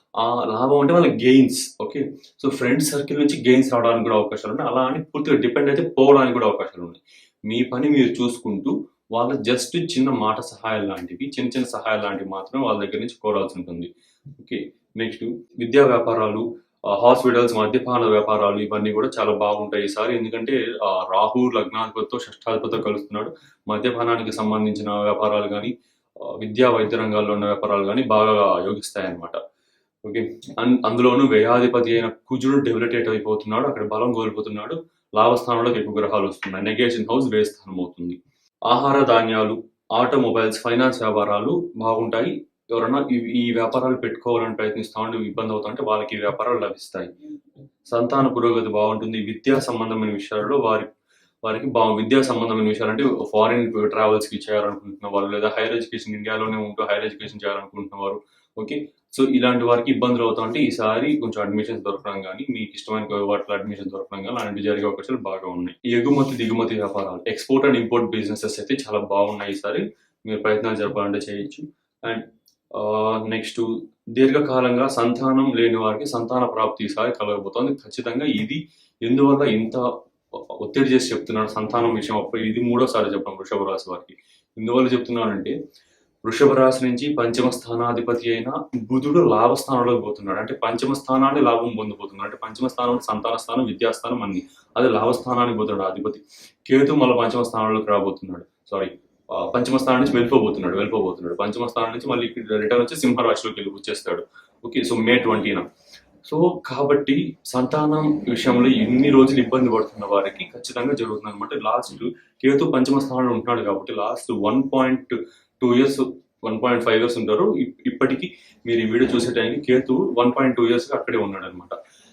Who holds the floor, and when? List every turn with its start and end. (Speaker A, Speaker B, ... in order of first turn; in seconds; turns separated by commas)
Speaker A: 0.2-29.4, Speaker A: 30.0-47.1, Speaker A: 47.9-50.9, Speaker A: 51.4-85.5, Speaker A: 86.2-105.7, Speaker A: 106.2-121.8